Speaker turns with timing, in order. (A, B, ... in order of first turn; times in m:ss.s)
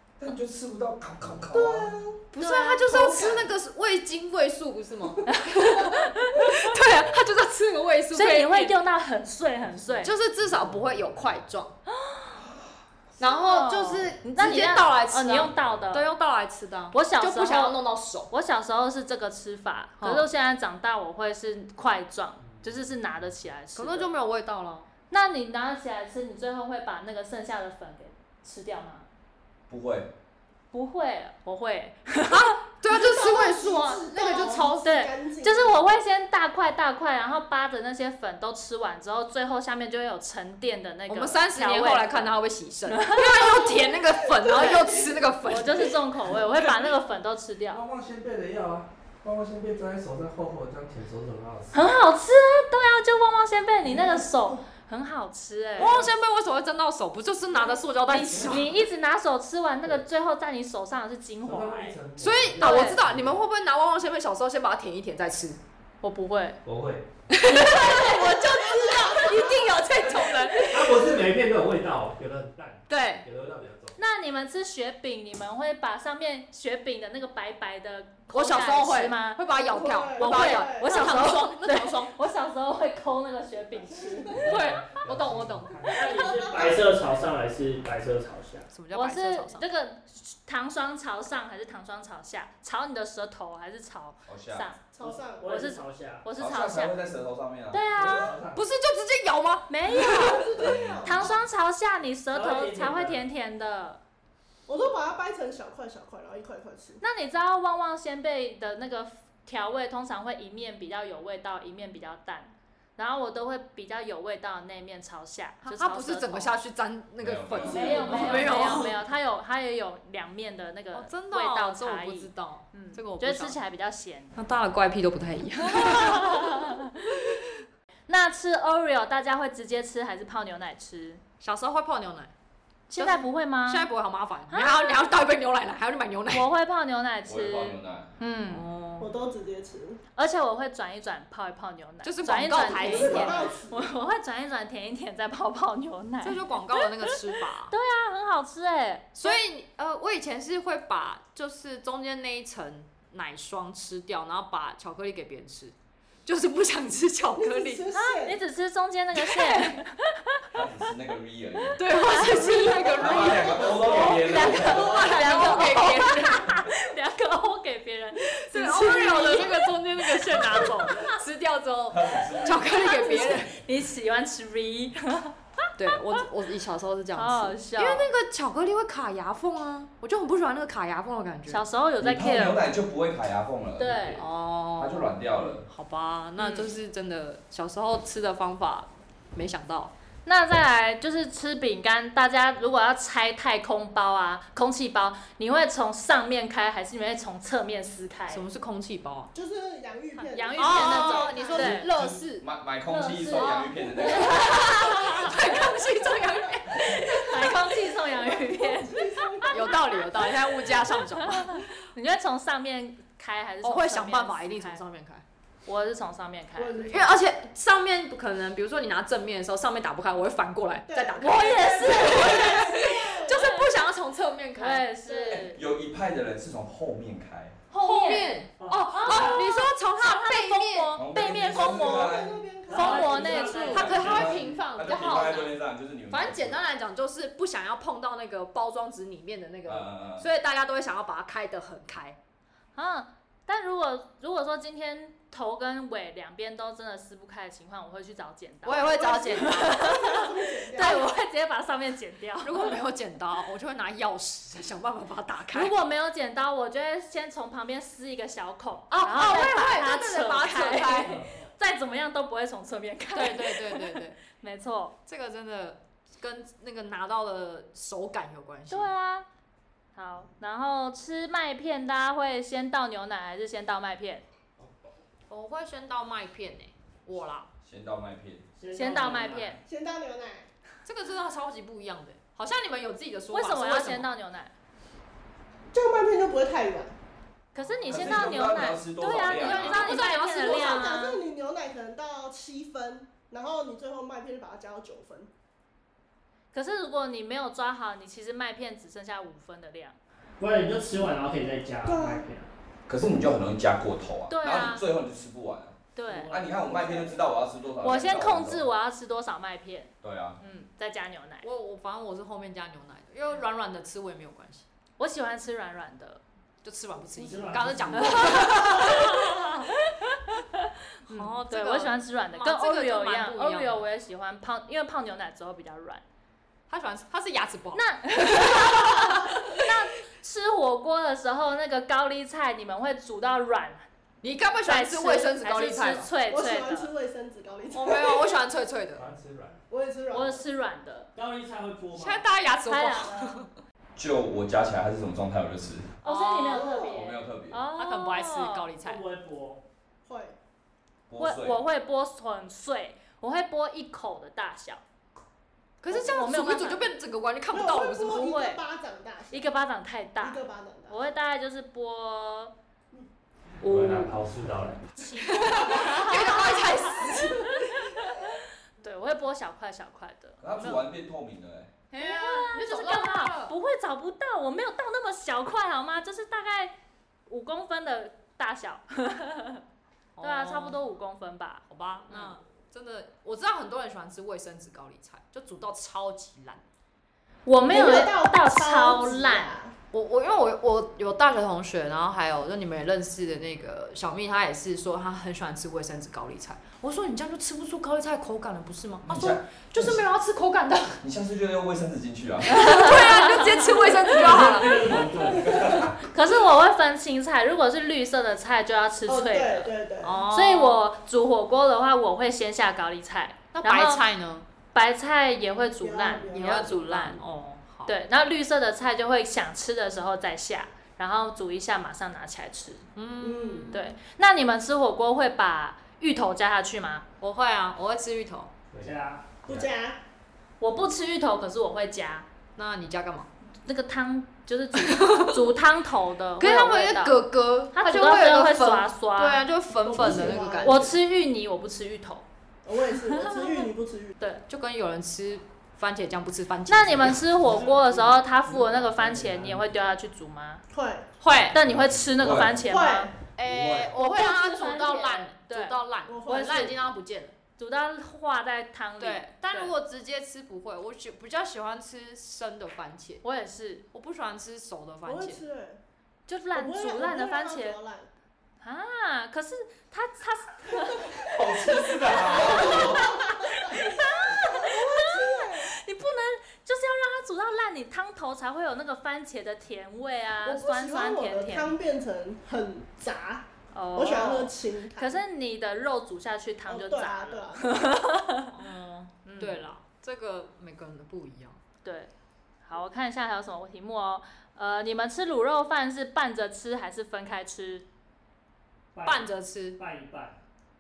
0:00.2-0:02.0 A
0:01.5-0:02.2 B
0:02.3-0:08.8 C
0:02.4-0:03.2 D
0:03.0-0:03.4 B
0:05.3-0:06.7 D
0:08.1-0:10.1 D
0:09.9-0:11.4 E
0:10.0-0:11.7 C
0:11.9-0:12.4 D
0:13.2-0:18.3 C
0:13.2-0:16.1 D
0:15.5-0:15.9 E
0:16.9-0:17.8 D
0:18.3-0:24.1 D
0:20.0-0:20.3 C
0:22.4-0:23.3 E
0:23.8-0:24.9 C
0:25.1-0:29.1 D
0:29.7-0:30.1 A
0:30.7-0:32.6 D
0:32.3-0:34.8 C
0:32.9-0:35.8 B
0:34.8-0:42.4 D
0:41.1-0:46.0 C
0:42.9-0:43.5 D
0:43.4-0:46.0 B
0:45.4-0:47.8 D
0:47.7-0:51.9 E
0:51.7-0:56.1 D
0:53.9-0:54.6 B
0:55.8-0:58.6 C
0:58.1-1:02.0 D
0:58.3-0:58.8 E
1:01.4-1:03.4 E
1:02.2-1:05.6 C
1:02.6-1:03.0 D
1:06.0-1:06.6 D
1:06.6-1:07.1 E
1:07.3-1:11.1 C
1:07.5-1:08.1 D
1:08.0-1:09.6 B
1:10.0-1:14.0 E
1:12.9-1:13.3 C
1:14.0-1:19.4 D
1:18.3-1:22.2 C
1:19.6-1:21.1 B
1:20.2-1:24.5 D
1:23.8-1:24.3 B
1:24.3-1:26.4 E
1:24.3-1:25.9 C
1:25.9-1:28.7 F
1:26.0-1:26.9 B
1:28.7-1:29.7 C
1:28.9-1:34.8 D
1:34.3-1:34.7 A
1:34.9-1:35.6 B
1:35.0-1:36.3 F
1:35.4-1:37.1 D
1:36.4-1:38.2 A
1:37.7-1:38.4 D
1:38.2-1:38.6 E
1:38.5-1:40.4 C
1:39.7-1:44.0 D
1:40.0-1:41.3 B
1:40.6-1:41.3 A
1:42.3-1:43.2 F
1:44.7-1:47.0 B
1:47.0-1:56.5 D
1:55.6-1:59.0 C
1:57.2-1:58.6 A
1:57.6-2:04.4 D
2:00.9-2:03.6 C
2:04.4-2:06.7 C
2:05.6-2:07.2 D
2:08.1-2:11.2 D
2:11.4-2:12.3 C
2:12.9-2:13.9 D
2:13.0-2:16.5 C
2:14.5-2:15.2 D
2:16.3-2:18.6 D
2:17.3-2:18.1 A
2:18.5-2:19.1 C
2:19.0-2:20.0 B
2:20.2-2:29.4 D
2:22.0-2:23.5 C
2:22.5-2:23.9 B
2:26.2-2:27.7 C
2:29.2-2:35.7 C
2:36.3-2:37.9 C
2:37.3-2:38.4 B
2:37.9-2:40.4 D
2:39.2-2:39.7 C
2:40.5-2:41.8 A
2:41.8-2:46.5 C
2:42.0-2:51.2 D
2:42.4-2:44.1 B
2:43.0-2:45.2 A
2:48.3-2:53.6 C
2:51.9-2:52.9 A
2:52.6-2:56.0 D
2:55.8-3:01.6 C
2:57.2-2:58.1 D
3:01.5-3:02.6 D
3:02.0-3:04.2 A
3:03.8-3:04.2 D
3:04.2-3:09.9 C
3:04.8-3:05.6 A
3:06.4-3:06.7 D
3:10.2-3:18.4 D
3:18.3-3:19.3 C
3:19.3-3:21.9 B
3:20.2-3:21.9 D
3:20.6-3:22.5 C
3:21.6-3:24.4 A
3:22.9-3:25.7 D
3:23.4-3:27.6 C
3:26.7-3:30.1 D
3:28.3-3:30.2 B
3:29.5-3:31.6 C
3:31.2-3:34.8 D
3:33.6-3:35.2 C
3:35.7-3:36.9 D
3:36.6-3:37.2 B
3:36.8-3:44.9 C
3:40.9-3:43.4 B
3:41.2-3:43.7 D
3:44.6-3:45.6 D
3:45.1-3:47.6 A
3:47.7-3:51.0 C
3:47.7-3:48.4 D
3:48.6-3:49.4 F
3:48.9-3:54.0 D
3:51.0-3:52.4 A
3:51.3-3:53.8 B
3:52.7-3:54.7 F
3:53.3-3:55.6 C
3:53.7-3:56.6 A
3:56.1-4:02.2 C
3:59.6-4:00.3 A
4:02.8-4:12.8 D
4:08.6-4:09.9 C
4:08.9-4:11.1 B
4:12.4-4:15.7 C
4:15.5-4:25.0 D
4:18.9-4:21.3 C
4:23.1-4:24.2 C
4:25.1-4:28.9 C
4:28.7-4:29.3 D
4:30.0-4:34.2 D
4:35.3-4:37.5 C
4:37.6-4:38.5 A
4:38.6-4:39.6 F
4:38.7-4:39.6 D
4:39.6-4:40.5 B
4:40.8-4:44.1 C
4:43.3-4:44.5 D
4:45.7-4:46.9 B
4:47.5-4:51.2 D
4:47.9-4:50.0 A
4:49.3-4:51.0 C
4:50.3-4:55.3 B
4:56.5-5:00.0 D
5:00.4-5:02.5 F
5:01.8-5:02.2 B
5:02.9-5:05.8 A
5:04.3-5:04.8 D
5:06.0-5:06.3 D
5:06.1-5:07.1 F
5:06.3-5:08.7 A
5:07.8-5:11.5 D
5:10.0-5:10.4 A
5:11.4-5:14.7 C
5:15.0-5:16.2 D
5:16.6-5:19.5 C
5:17.1-5:18.7 F
5:17.9-5:26.0 D
5:21.1-5:23.8 C
5:26.7-5:29.7 C
5:27.8-5:33.8 D
5:34.2-5:36.1 C
5:34.6-5:36.9 D
5:36.3-5:38.4 B
5:37.7-5:39.0 C
5:39.0-5:39.6 E
5:39.7-5:40.4 B
5:40.1-5:41.1 D
5:41.2-5:42.3 F
5:41.9-5:43.5 C
5:42.7-5:43.4 D
5:44.0-5:46.0 A
5:46.0-5:48.7 D
5:46.0-5:46.6 C
5:46.5-5:47.0 B
5:46.8-5:47.6 A
5:47.8-5:49.0 C
5:48.8-5:49.6 F
5:50.0-5:50.4 B
5:51.1-5:51.6 A
5:51.2-5:54.8 D
5:55.8-5:58.3 C
5:55.9-5:56.9 D
5:57.5-5:59.5 B
5:58.2-5:58.6 D
5:59.3-6:02.5 D
6:00.2-6:01.1 B
6:03.6-6:04.9 E
6:05.0-6:08.3 D
6:05.2-6:07.7 C
6:07.0-6:07.5 B
6:08.8-6:10.8 D
6:10.4-6:11.7 A
6:11.9-6:13.6 C
6:11.9-6:16.8 D
6:17.3-6:19.6 D
6:20.2-6:20.8 C
6:20.2-6:22.4 D
6:21.7-6:26.6 C
6:27.5-6:29.5 D
6:27.6-6:29.7 B
6:29.9-6:41.0 C
6:39.0-6:40.0 A
6:41.0-6:42.8 A
6:42.5-6:45.1 C
6:42.5-6:44.7 D
6:44.1-6:45.8 F
6:45.4-6:45.9 A
6:45.5-6:45.9 B
6:46.0-6:49.7 D
6:49.1-6:50.2 B
6:50.0-6:50.8 C
6:50.3-6:54.0 D
6:53.5-6:54.4 C
6:54.7-6:57.2 D
6:55.8-6:56.8 B
6:56.3-6:57.9 C
6:57.9-7:02.8 D
7:03.0-7:03.8 C
7:03.2-7:03.8 B
7:03.7-7:07.0 D
7:07.2-7:08.5 C
7:08.8-7:09.4 F
7:09.5-7:10.0 B
7:10.6-7:12.3 D
7:12.6-7:13.3 C
7:13.6-7:19.4 D
7:14.8-7:15.4 C
7:16.4-7:20.9 C
7:19.8-7:21.0 B
7:20.6-7:22.3 D
7:22.6-7:24.2 B
7:23.2-7:23.7 D
7:24.5-7:27.2 C
7:26.7-7:30.6 D
7:27.4-7:29.6 F
7:30.7-7:31.1 B
7:31.2-7:31.6 C
7:31.5-7:33.1 D
7:32.2-7:32.7 A
7:32.7-7:33.1 B
7:33.4-7:37.3 C
7:33.4-7:33.9 A
7:34.0-7:36.8 D
7:36.1-7:36.8 B
7:37.6-7:39.7 D
7:39.0-7:43.2 C
7:43.2-7:43.9 D
7:43.9-7:45.4 C
7:45.1-7:45.8 B
7:46.3-7:47.8 D
7:46.5-7:48.1 B
7:48.6-8:01.8 D
7:51.2-7:53.2 A
7:52.1-7:55.7 B
8:00.4-8:05.2 B
8:03.7-8:08.6 D
8:06.7-8:07.7 B
8:08.5-8:11.6 C
8:09.2-8:09.7 D
8:11.8-8:12.1 D
8:12.6-8:17.9 D
8:18.9-8:20.4 F
8:19.0-8:19.8 C